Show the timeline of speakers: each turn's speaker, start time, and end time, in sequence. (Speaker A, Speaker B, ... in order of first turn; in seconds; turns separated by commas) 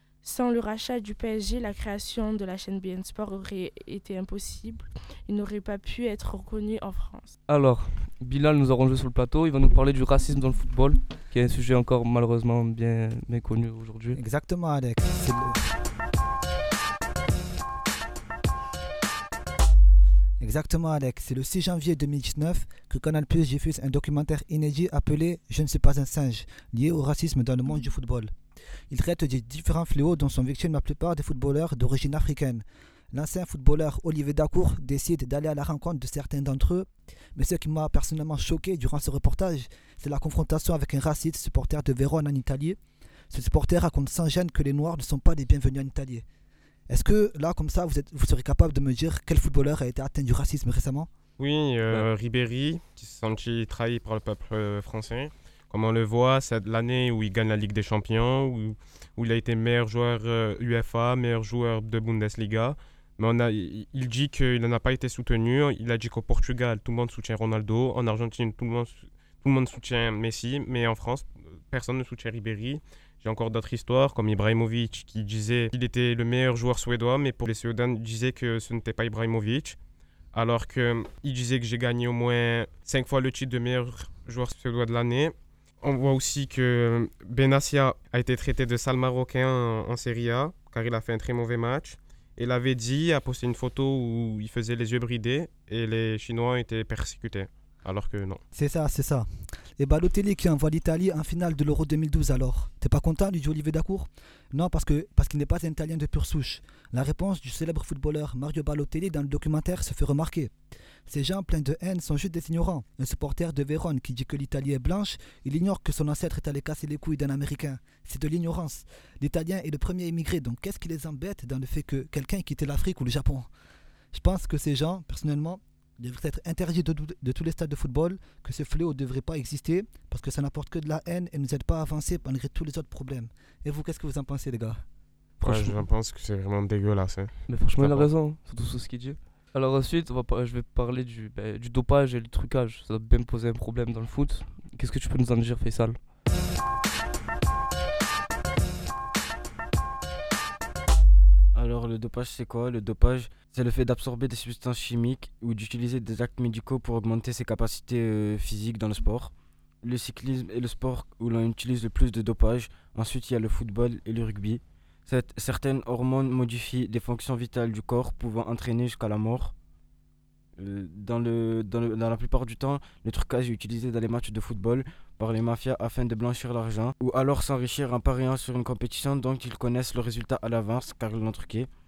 Speaker A: 0.2-7.3, Speaker B: 7.5-14.2, Speaker C: 14.1-15.6, Speaker C: 20.4-28.3, Speaker C: 28.9-42.8, Speaker C: 43.3-46.2, Speaker C: 46.9-51.1, Speaker D: 51.4-79.8, Speaker D: 80.3-98.4, Speaker C: 98.5-110.5, Speaker C: 111.1-123.5, Speaker C: 124.1-134.8, Speaker B: 135.4-135.8, Speaker D: 135.4-138.1, Speaker B: 137.5-146.0, Speaker E: 151.5-159.3, Speaker E: 159.8-169.5, Speaker E: 170.6-181.7